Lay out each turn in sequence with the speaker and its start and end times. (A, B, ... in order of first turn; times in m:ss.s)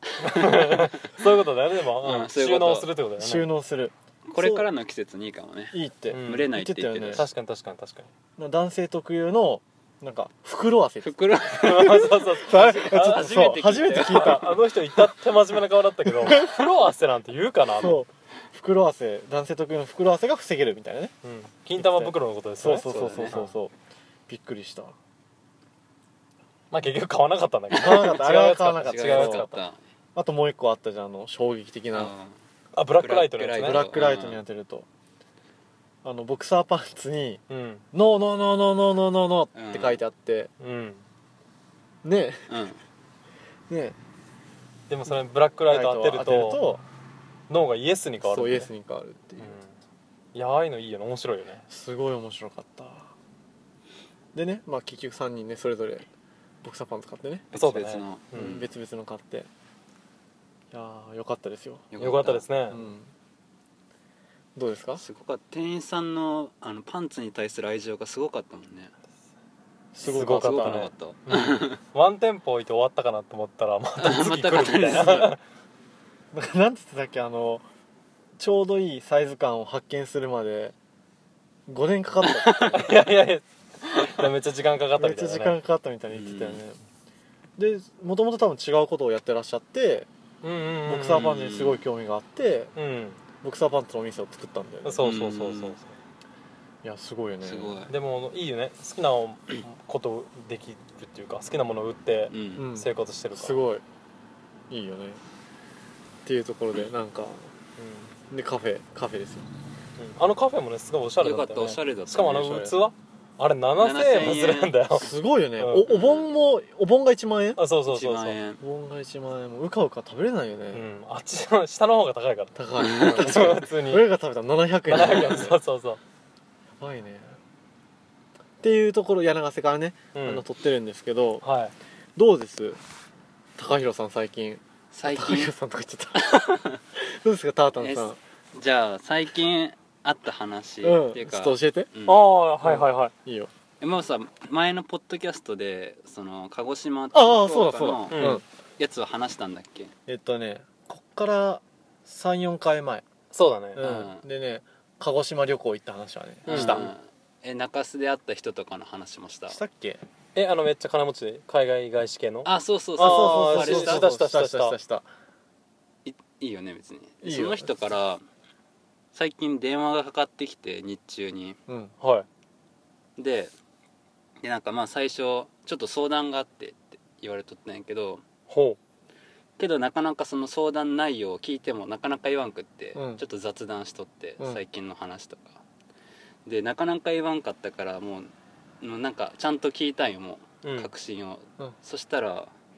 0:00.2-0:03.5 A
0:00.3-0:00.9 B
0:02.0-0:02.9 B
0:03.2-0:04.7 C
0:04.3-0:07.3 B
0:05.7-0:07.3 C
0:06.1-0:06.5 A
0:07.1-0:08.1 A
0:08.4-0:14.6 C
0:11.0-0:15.4 B
0:11.6-0:18.0 A
0:16.2-0:16.5 C
0:17.7-0:21.1 C
0:21.2-0:23.5 A
0:21.8-0:23.7 C
0:22.8-0:23.5 B
0:24.3-0:25.0 C
0:26.7-0:29.6 A
0:27.7-0:29.5 C
0:28.8-0:29.8 B
0:30.2-0:32.1 C
0:31.9-0:34.4 B
0:32.7-0:33.9 A
0:33.6-0:34.9 C
0:36.0-0:37.4 C
0:37.5-0:37.8 A
0:37.9-0:40.5 C
0:39.5-0:40.0 B
0:40.6-0:41.0 A
0:42.0-0:42.5 C
0:42.5-0:42.8 B
0:43.7-0:44.0 C
0:44.9-0:46.6 A
0:45.7-0:46.8 C
0:47.5-0:48.7 A
0:48.2-0:49.6 C
0:49.4-0:49.7 A
0:50.3-0:51.7 A
0:51.7-0:53.1 C
0:54.4-0:56.1 C
0:56.6-0:57.5 C
0:57.5-0:58.7 B
0:57.5-0:58.6 A
0:58.4-0:59.5 C
1:00.7-1:01.9 C
1:01.9-1:02.4 B
1:02.0-1:02.8 A
1:02.7-1:03.1 C
1:04.6-1:05.0 C
1:05.0-1:08.9 B
1:09.9-1:10.9 C
1:10.0-1:11.8 B
1:10.0-1:15.4 A
1:14.0-1:15.3 B
1:14.9-1:15.2 C
1:16.3-1:17.6 C
1:18.4-1:20.8 C
1:21.7-1:22.9 C
1:22.2-1:22.8 B
1:22.7-1:25.6 A
1:25.0-1:26.8 C
1:26.1-1:26.6 B
1:27.6-1:30.1 C
1:30.4-1:31.3 A
1:30.8-1:32.7 C
1:31.1-1:31.8 B
1:32.8-1:33.2 A
1:33.4-1:35.0 C
1:34.8-1:35.9 A
1:35.0-1:35.8 B
1:36.8-1:37.8 C
1:37.4-1:37.9 B
1:37.9-1:43.6 A
1:42.3-1:42.7 B
1:42.6-1:43.8 C
1:44.7-1:45.2 C
1:46.2-1:47.5 C
1:47.8-1:48.1 A
1:48.3-1:49.5 C
1:50.0-1:55.9 A
1:51.2-1:52.7 B
1:52.4-1:52.8 C
1:53.8-1:55.1 B
1:54.9-1:57.6 C
1:55.9-1:56.3 B
1:57.6-1:58.4 A
1:57.9-1:58.6 B
1:58.6-2:00.9 C
2:00.7-2:04.0 A
2:02.6-2:05.6 C
2:02.8-2:03.4 B
2:04.9-2:06.0 A
2:06.8-2:07.4 C
2:08.6-2:11.4 C
2:10.1-2:10.4 A
2:11.4-2:11.7 A
2:12.2-2:12.8 C
2:13.6-2:18.2 C
2:14.9-2:15.6 B
2:16.3-2:16.8 B
2:17.8-2:22.3 B
2:20.8-2:21.9 C
2:22.1-2:23.1 A
2:22.6-2:23.5 C
2:23.8-2:29.9 B
2:27.1-2:28.4 C
2:28.1-2:28.4 A
2:30.1-2:33.0 C
2:33.3-2:33.9 A
2:33.8-2:36.9 C
2:33.8-2:34.3 B
2:36.5-2:36.9 A
2:36.5-2:39.6 B
2:39.5-2:40.0 C
2:40.4-2:44.8 A
2:42.4-2:44.1 B
2:43.0-2:45.1 C
2:46.0-2:48.2 B
2:47.2-2:47.7 C
2:49.1-2:51.6 B
2:51.7-2:51.9 C
2:52.0-2:52.3 A
2:53.2-2:53.5 B
2:54.4-2:58.2 B
2:58.5-2:58.8 A
2:59.6-3:05.6 B
3:03.0-3:03.2 C
3:06.5-3:12.5 B
3:10.6-3:10.9 A